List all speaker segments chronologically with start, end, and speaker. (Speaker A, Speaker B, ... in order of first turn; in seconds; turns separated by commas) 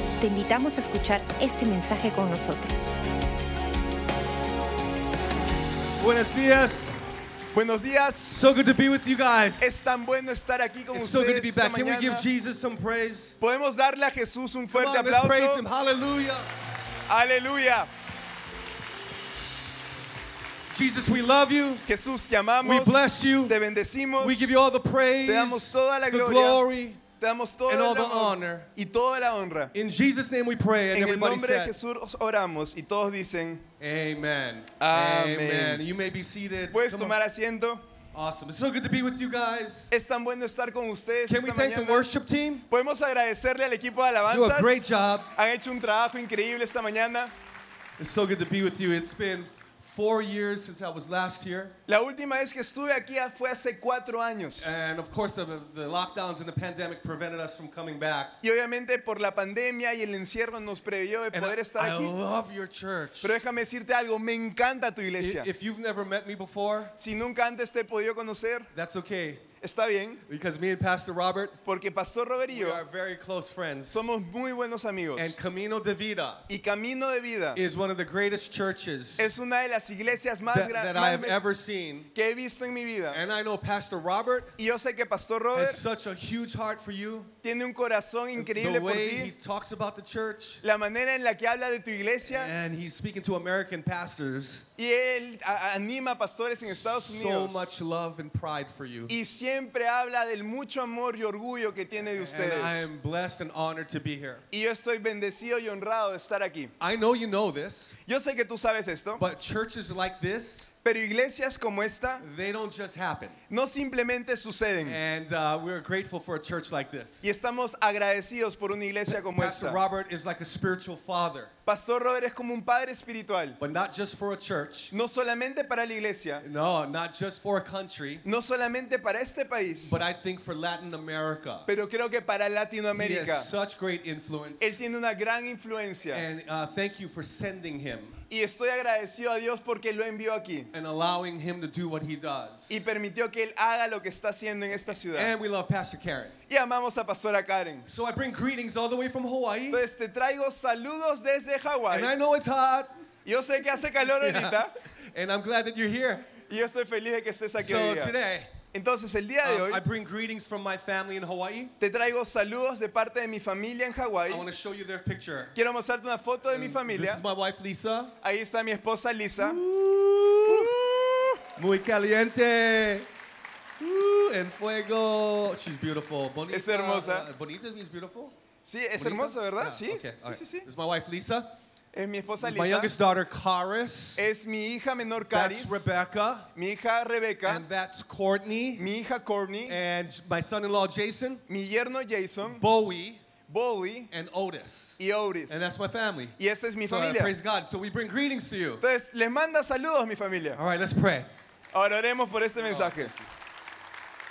Speaker A: 0.2-2.9, Speaker B: 6.0-7.0, Speaker C: 7.5-8.4, Speaker B: 8.3-9.7, Speaker C: 9.6-12.3, Speaker B: 10.9-13.4, Speaker C: 13.4-15.6, Speaker B: 14.7-16.5, Speaker C: 17.1-17.9, Speaker B: 20.7-21.9, Speaker C: 21.9-24.5, Speaker B: 22.6-23.6, Speaker B: 24.2-27.0, Speaker C: 25.3-26.6, Speaker C: 27.2-29.7, Speaker B: 27.7-28.7, Speaker B: 29.7-31.8, Speaker C: 30.9-33.6, Speaker B: 33.8-37.2, Speaker C: 34.8-35.9, Speaker C: 36.7-37.9, Speaker B: 38.1-39.9, Speaker C: 39.9-42.1, Speaker B: 41.3-42.7, Speaker C: 42.7-47.3, Speaker B: 44.3-45.3, Speaker B: 48.0-51.8, Speaker C: 51.9-54.7, Speaker B: 54.6-58.4, Speaker C: 58.4-62.1, Speaker B: 61.3-63.4, Speaker C: 63.2-65.5, Speaker B: 65.2-66.9, Speaker C: 67.0-68.7, Speaker B: 68.7-69.5, Speaker C: 69.6-70.2, Speaker B: 70.3-71.6, Speaker C: 71.7-72.8, Speaker B: 72.5-74.0, Speaker C: 73.9-75.4, Speaker B: 75.2-76.5, Speaker C: 76.5-77.6, Speaker B: 77.5-79.3, Speaker C: 79.2-81.4, Speaker B: 80.5-82.1, Speaker C: 82.2-83.2, Speaker B: 83.1-84.6, Speaker C: 84.6-85.8, Speaker B: 85.5-87.3, Speaker C: 87.4-89.3, Speaker B: 88.3-90.6, Speaker C: 90.6-92.5, Speaker B: 92.2-94.7, Speaker C: 94.8-97.7, Speaker B: 96.7-99.2, Speaker C: 99.1-102.9, Speaker B: 102.1-104.5, Speaker C: 104.5-106.7, Speaker B: 106.8-108.0, Speaker C: 108.0-109.2, Speaker B: 109.2-110.7, Speaker C: 110.8-112.2, Speaker B: 112.2-113.4, Speaker C: 113.5-115.0, Speaker B: 114.8-117.3, Speaker C: 117.2-119.8, Speaker B: 119.1-121.5, Speaker C: 121.7-123.6, Speaker B: 123.6-124.9, Speaker C: 124.9-126.4, Speaker B: 126.4-128.2, Speaker C: 128.2-130.0, Speaker B: 129.8-131.7, Speaker C: 131.7-133.5, Speaker B: 132.9-134.8, Speaker C: 134.6-136.2, Speaker B: 136.1-138.2, Speaker C: 138.3-140.7, Speaker B: 140.7-142.9, Speaker C: 142.7-145.3, Speaker B: 145.1-146.4, Speaker C: 146.5-147.9, Speaker B: 147.8-149.8, Speaker C: 149.7-152.2, Speaker B: 151.9-152.9, Speaker C: 153.2-154.8, Speaker B: 154.1-156.4, Speaker C: 156.5-158.2, Speaker B: 157.6-158.5, Speaker C: 158.7-159.8, Speaker B: 159.4-161.7, Speaker C: 161.8-164.5, Speaker B: 164.3-165.5, Speaker C: 165.5-167.2, Speaker B: 166.5-168.1, Speaker C: 168.2-169.6, Speaker B: 169.4-170.8, Speaker C: 170.5-171.4, Speaker B: 171.6-173.1, Speaker B: 173.8-178.3, Speaker C: 176.5-177.3, Speaker C: 178.7-180.7, Speaker B: 179.0-181.6, Speaker C: 181.9-182.9, Speaker B: 182.4-184.3, Speaker C: 184.2-185.8, Speaker B: 185.3-186.5, Speaker C: 186.6-187.7, Speaker B: 187.4-188.9, Speaker C: 188.8-189.8, Speaker B: 189.7-191.4, Speaker C: 191.5-192.6, Speaker B: 192.4-193.2, Speaker C: 193.5-194.1, Speaker B: 194.1-198.8, Speaker C: 195.0-195.7, Speaker C: 196.4-197.3, Speaker C: 198.8-200.6, Speaker B: 200.6-201.3, Speaker C: 201.7-203.1, Speaker B: 202.6-203.2